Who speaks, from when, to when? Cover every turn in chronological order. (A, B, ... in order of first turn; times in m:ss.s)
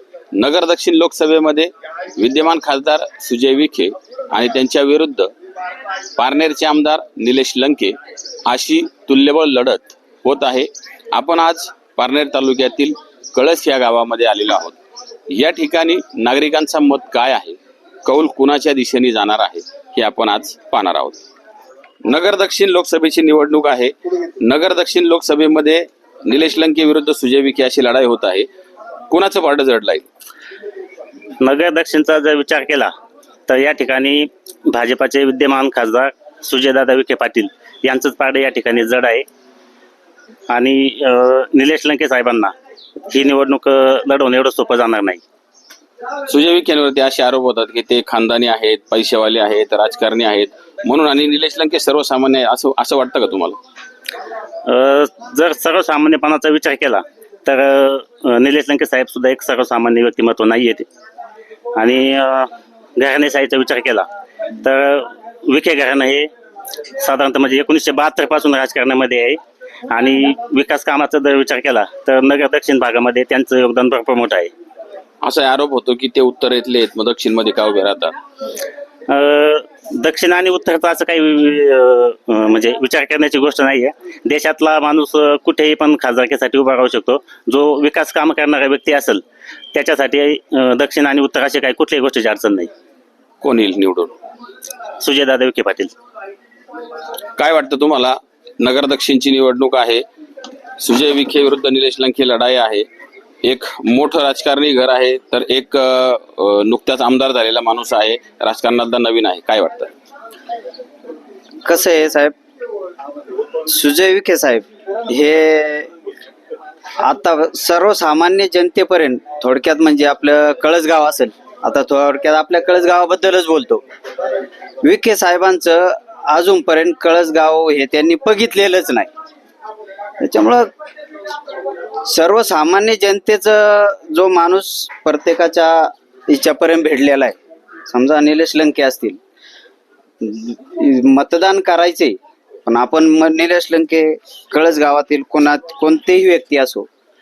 0:00.3-0:05.3 A
0:06.2-0:08.0 A
0:08.5-0:14.8 A
0:15.3-0:21.2 A
0:22.0-0:28.5 A
0:29.1-0:30.0 A
0:31.4-0:32.9 B
0:33.5-0:39.2 B
0:40.5-0:42.5 B
0:43.1-0:45.2 B
0:46.3-0:53.6 A
0:54.7-1:00.8 B
1:01.8-1:04.1 B
1:04.6-1:06.3 B
1:07.0-1:09.4 B
1:09.9-1:14.5 B
1:15.2-1:18.1 A
1:19.1-1:29.2 B
1:29.7-1:32.7 B
1:33.4-1:34.1 A
1:35.0-1:35.9 B
1:37.4-1:40.0 A
1:40.8-1:42.8 A
1:43.4-1:49.9 A
1:51.6-1:52.3 C
1:53.6-1:55.9 C
1:57.0-2:03.8 C
2:04.8-2:09.1 C
2:10.2-2:10.7 C
2:12.0-2:17.3 C
2:17.9-2:19.2 C
2:20.2-2:26.9 C